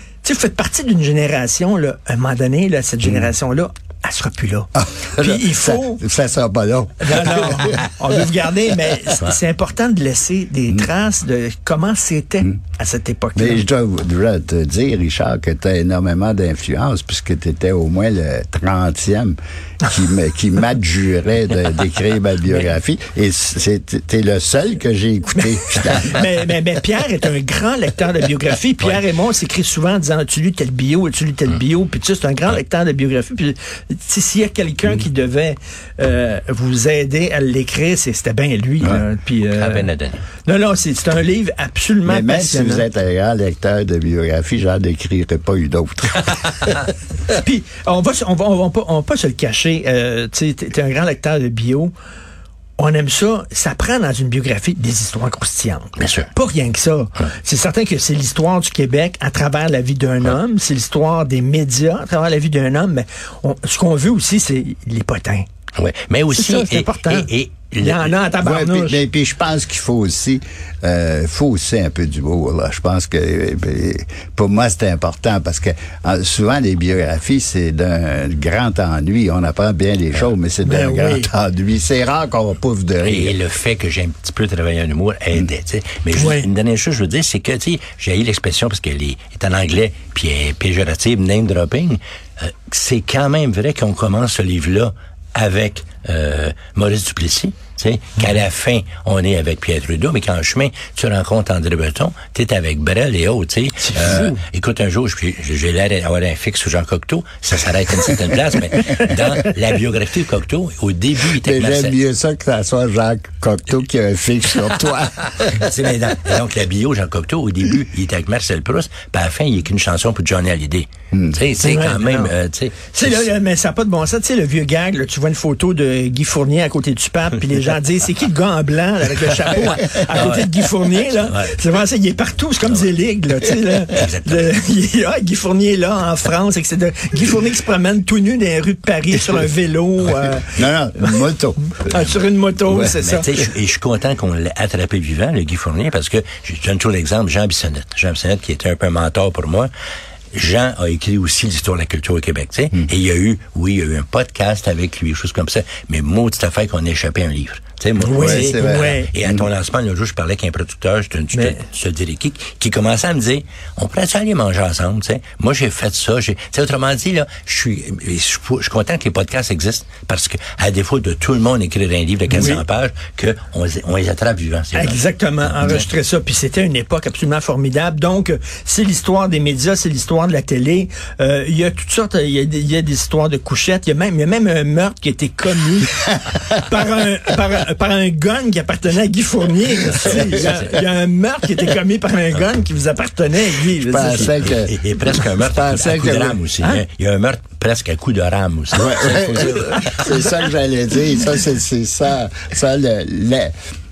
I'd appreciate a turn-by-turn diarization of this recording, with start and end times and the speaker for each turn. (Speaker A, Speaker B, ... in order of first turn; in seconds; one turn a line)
Speaker A: 0.2-6.0
Speaker B: 4.8-7.8
Speaker A: 7.0-13.6
Speaker B: 13.3-26.1
Speaker A: 25.3-39.9
Speaker C: 39.5-40.2
Speaker A: 40.5-42.8
Speaker B: 42.0-46.3
Speaker A: 47.3-51.9
Speaker A: 52.8-65.5
Speaker C: 56.0-56.3
Speaker C: 65.8-68.1
Speaker A: 66.3-69.0
Speaker B: 68.4-83.3
Speaker A: 80.6-81.3
Speaker C: 83.0-111.9
Speaker A: 86.1-86.5
Speaker A: 103.8-104.4
Speaker B: 111.3-115.6
Speaker C: 115.4-123.3
Speaker B: 121.1-121.4
Speaker A: 121.6-122.3
Speaker A: 122.9-143.4
Speaker C: 129.6-131.5
Speaker C: 133.9-134.5
Speaker B: 140.5-141.7
Speaker C: 143.0-149.7
Speaker C: 150.3-175.0
Speaker A: 158.0-159.1
Speaker B: 158.1-159.5
Speaker A: 161.3-161.6
Speaker A: 172.3-172.6
Speaker A: 174.7-194.5
Speaker C: 175.6-175.8
Speaker C: 190.1-190.7
Speaker B: 193.8-194.8
Speaker C: 194.0-200.1
Speaker B: 195.3-196.4
Speaker B: 198.7-203.5